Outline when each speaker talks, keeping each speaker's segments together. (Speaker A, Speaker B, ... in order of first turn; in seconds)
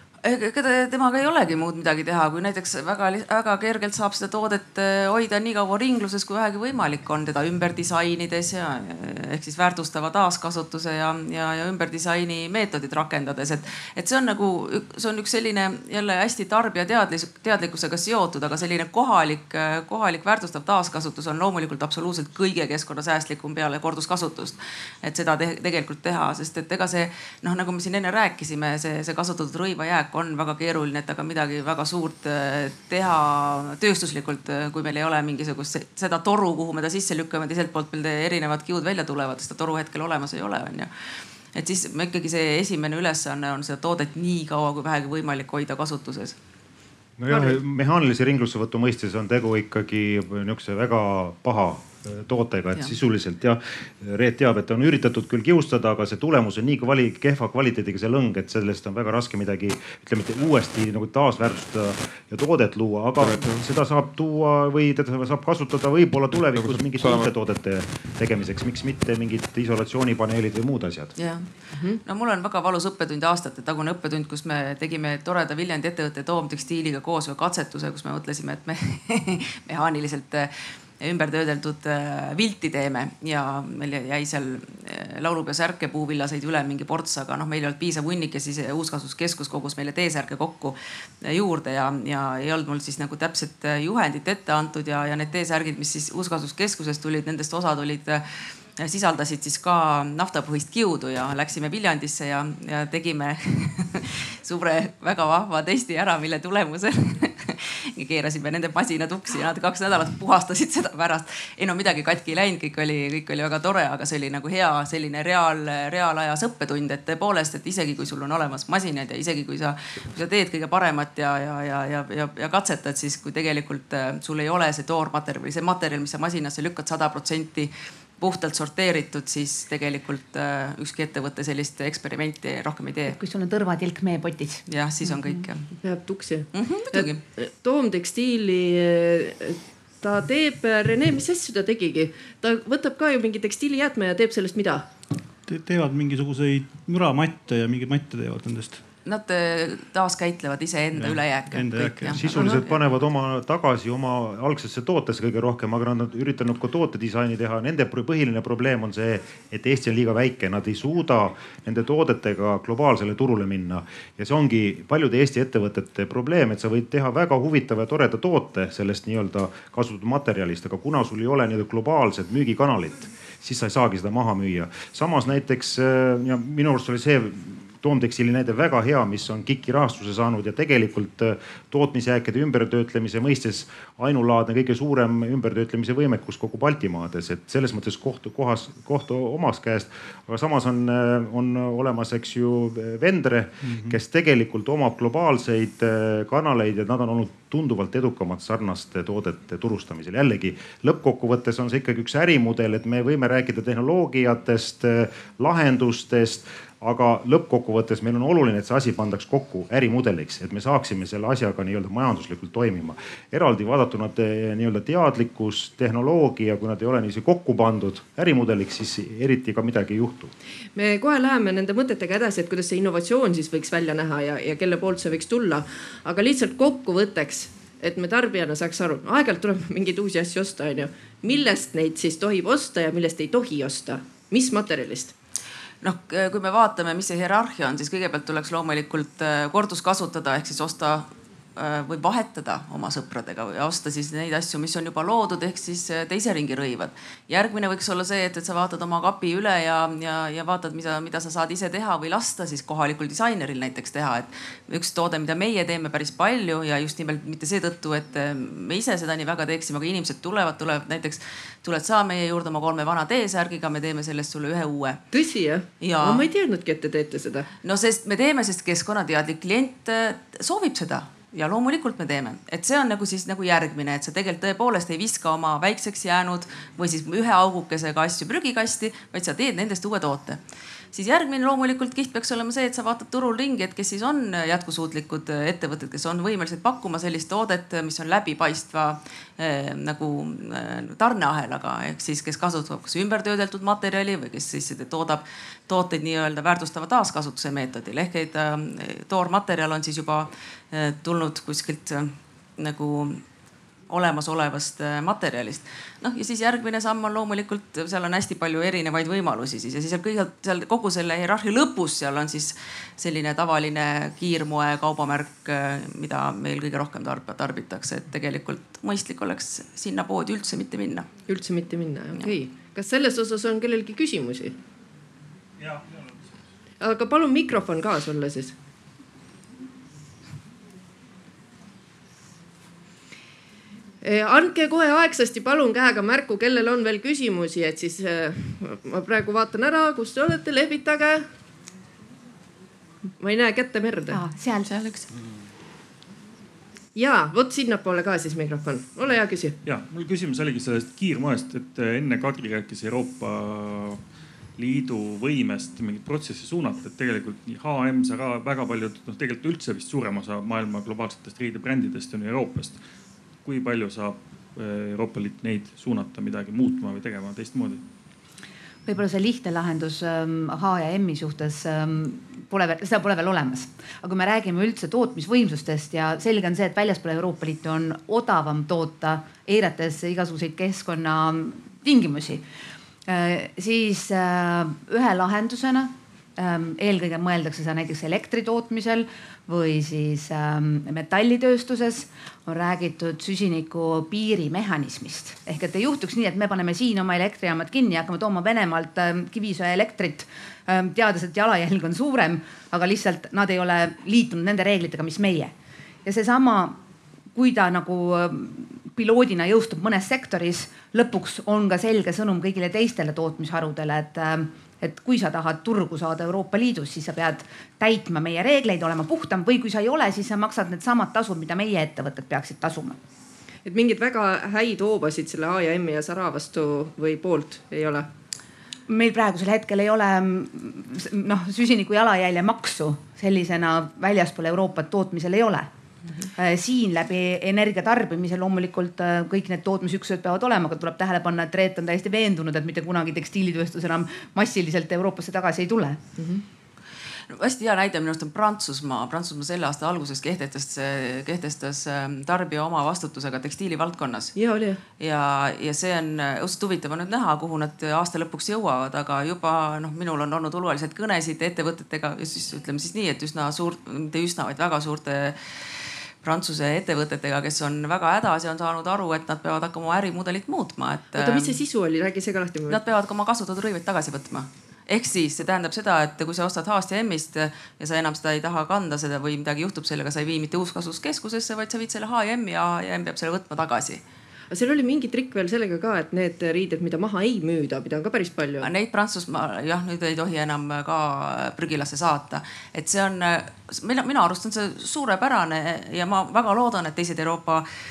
Speaker A: 0.2-40.9, 41.5-46.4, 71.2-71.5, 72.0-98.2, 98.8-133.2, 134.7-135.8, 136.5-137.2, 149.0-152.8, 235.8-265.0, 265.8-266.2, 267.6-280.4, 280.9-303.2, 303.9-321.1, 447.3-454.3, 455.0-465.7, 466.2-471.6, 472.7-484.0, 488.6-497.6
Speaker B: 47.2-71.1, 152.1-220.3
Speaker C: 47.3-47.5, 135.8-144.8, 220.8-235.1, 265.1-267.5, 321.3-324.5, 326.8-328.5, 334.0-341.2, 343.2-344.2, 346.9-349.6, 423.6-428.1, 446.2-446.4, 454.4-454.8, 471.1-472.8, 484.5-488.7
Speaker D: 133.1-134.6, 344.1-345.0, 368.9-382.4, 383.1-405.5, 406.0-406.8, 407.3-423.0, 428.9-435.7, 436.4-446.0
Speaker E: 145.5-148.8, 150.9-152.4
Speaker F: 349.6-354.0, 354.6-362.8, 363.4-367.8